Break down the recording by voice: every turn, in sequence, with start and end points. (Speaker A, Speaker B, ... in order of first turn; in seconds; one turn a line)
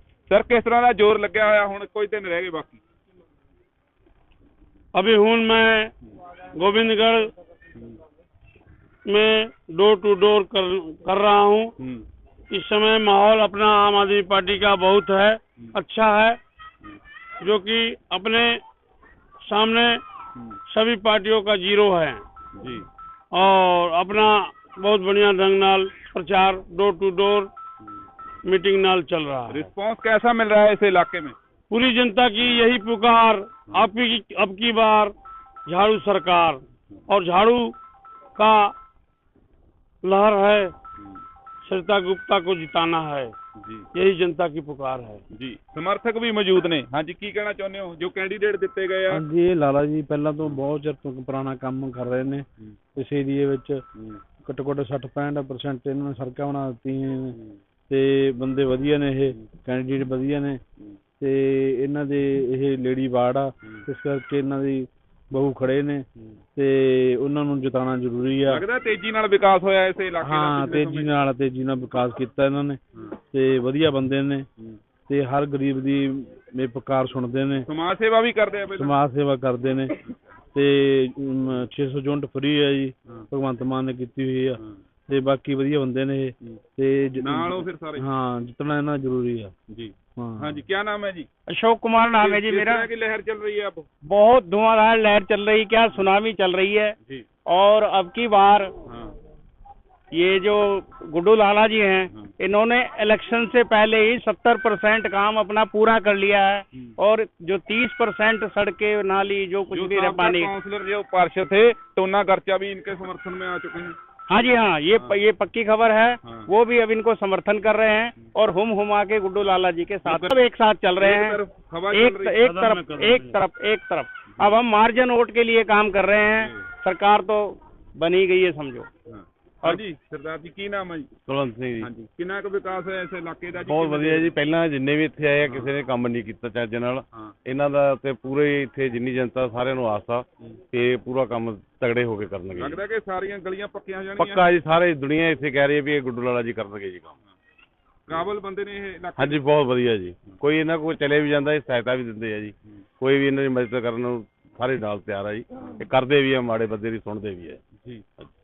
Speaker A: 0.3-2.8
Speaker B: 4.9-5.9
Speaker B: 6.5-7.3
Speaker B: 9.1-11.7
Speaker A: 11.8-12.1
Speaker B: 12.5-16.4
Speaker B: 17.4-18.6
Speaker B: 19.4-20.0
Speaker B: 20.7-22.2
Speaker A: 22.6-22.9
Speaker B: 23.3-27.5
Speaker B: 28.4-29.7
Speaker A: 29.5-31.4
Speaker B: 31.7-35.1
Speaker B: 35.7-37.8
Speaker B: 38.4-38.7
Speaker B: 40.0-40.7
Speaker B: 41.6-43.3
Speaker A: 43.6-43.9
Speaker B: 43.9-45.2
Speaker A: 45.3-49.2
Speaker C: 49.1-53.8
Speaker C: 54.4-57.4
Speaker C: 57.9-60.6
Speaker C: 61.2-68.6
Speaker A: 68.5-71.1
Speaker C: 70.2-72.8
Speaker C: 73.3-74.5
Speaker C: 75.1-77.7
Speaker A: 77.7-79.0
Speaker C: 78.8-80.0
Speaker C: 80.5-89.5
Speaker A: 87.2-88.0
Speaker A: 89.7-91.3
Speaker C: 90.2-90.6
Speaker D: 91.5-92.9
Speaker A: 92.2-93.9
Speaker D: 94.0-98.7
Speaker A: 98.9-99.1
Speaker D: 100.1-110.5
Speaker A: 109.7-114.0
Speaker D: 114.3-121.4
Speaker A: 120.0-120.3
Speaker A: 121.0-122.3
Speaker D: 121.9-128.9
Speaker B: 122.4-123.3
Speaker A: 129.1-131.1
Speaker E: 131.3-131.9
Speaker A: 131.8-134.3
Speaker E: 133.7-142.8
Speaker A: 142.5-144.5
Speaker E: 144.2-147.2
Speaker A: 148.1-149.4
Speaker E: 149.2-157.6